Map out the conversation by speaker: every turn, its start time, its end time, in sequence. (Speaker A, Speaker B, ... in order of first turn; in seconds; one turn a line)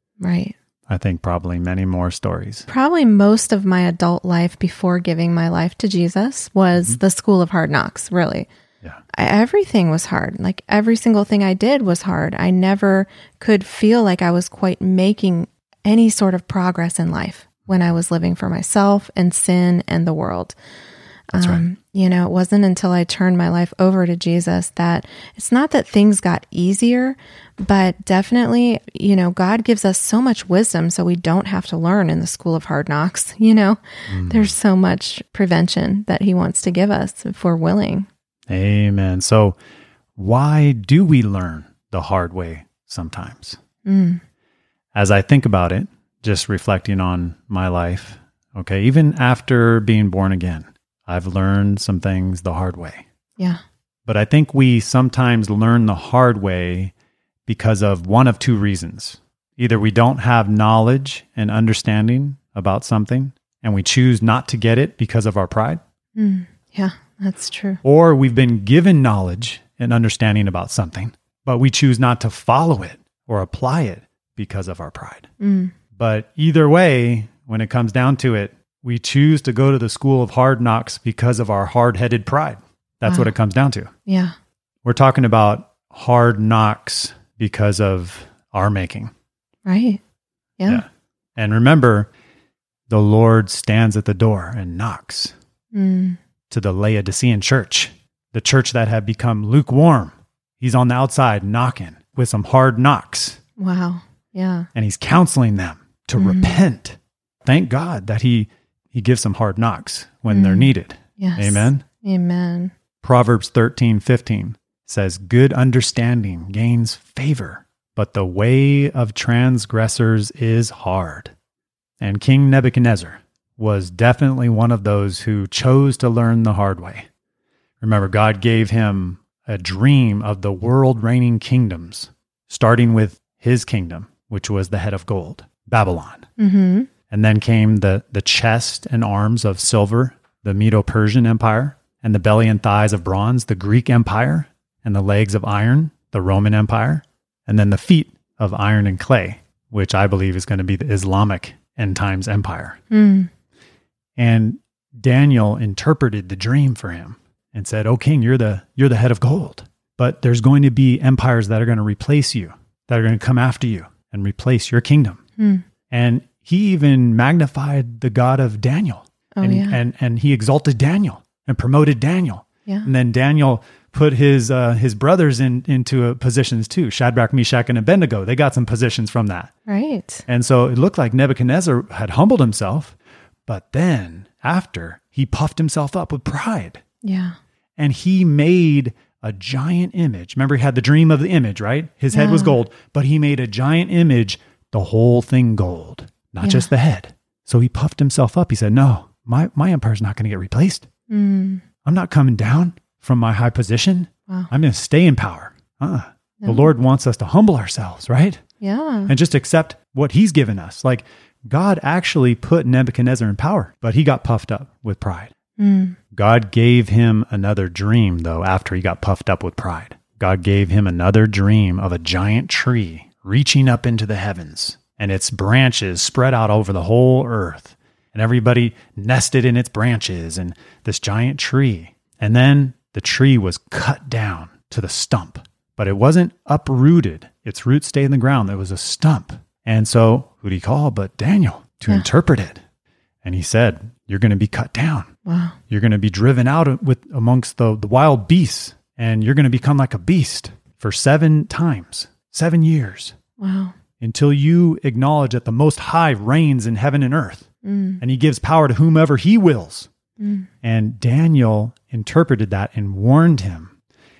Speaker A: 0.2-0.5
Speaker B: 0.9-2.7
Speaker A: 2.7-8.5
Speaker A: 9.1-20.6
Speaker A: 21.3-38.1
Speaker B: 21.3-21.6
Speaker B: 34.1-34.5
Speaker B: 38.5-39.5
Speaker B: 40.2-43.6
Speaker A: 43.8-44.2
Speaker B: 44.9-53.0
Speaker B: 54.0-56.9
Speaker B: 57.5-65.8
Speaker A: 66.2-67.8
Speaker B: 67.8-75.3
Speaker A: 75.4-75.7
Speaker B: 75.9-83.9
Speaker A: 83.0-83.3
Speaker A: 84.1-84.3
Speaker B: 84.8-89.1
Speaker A: 89.7-90.0
Speaker A: 90.6-90.8
Speaker B: 90.7-92.1
Speaker B: 92.9-95.3
Speaker A: 95.7-96.2
Speaker B: 96.5-103.4
Speaker A: 103.6-104.7
Speaker B: 104.7-111.8
Speaker A: 106.2-106.6
Speaker A: 110.3-112.7
Speaker B: 113.0-121.3
Speaker B: 122.0-127.1
Speaker B: 127.8-136.2
Speaker A: 136.4-136.9
Speaker B: 137.1-152.8
Speaker A: 152.9-153.3
Speaker B: 154.2-165.2
Speaker A: 165.4-165.6
Speaker B: 165.9-179.5
Speaker A: 169.4-169.8
Speaker A: 179.7-180.2
Speaker B: 180.3-182.9
Speaker B: 183.5-186.8
Speaker A: 187.0-187.3
Speaker B: 187.8-200.9
Speaker A: 192.1-192.6
Speaker A: 196.4-196.7
Speaker A: 201.1-201.6
Speaker B: 201.8-208.4
Speaker A: 206.4-206.7
Speaker A: 208.6-209.1
Speaker B: 209.1-215.3
Speaker A: 215.6-216.0
Speaker B: 216.1-242.6
Speaker B: 243.2-245.1
Speaker A: 245.2-245.6
Speaker B: 245.7-253.2
Speaker A: 253.4-253.7
Speaker B: 254.0-257.5
Speaker A: 257.6-258.0
Speaker B: 258.0-259.9
Speaker A: 260.2-260.5
Speaker B: 260.6-263.7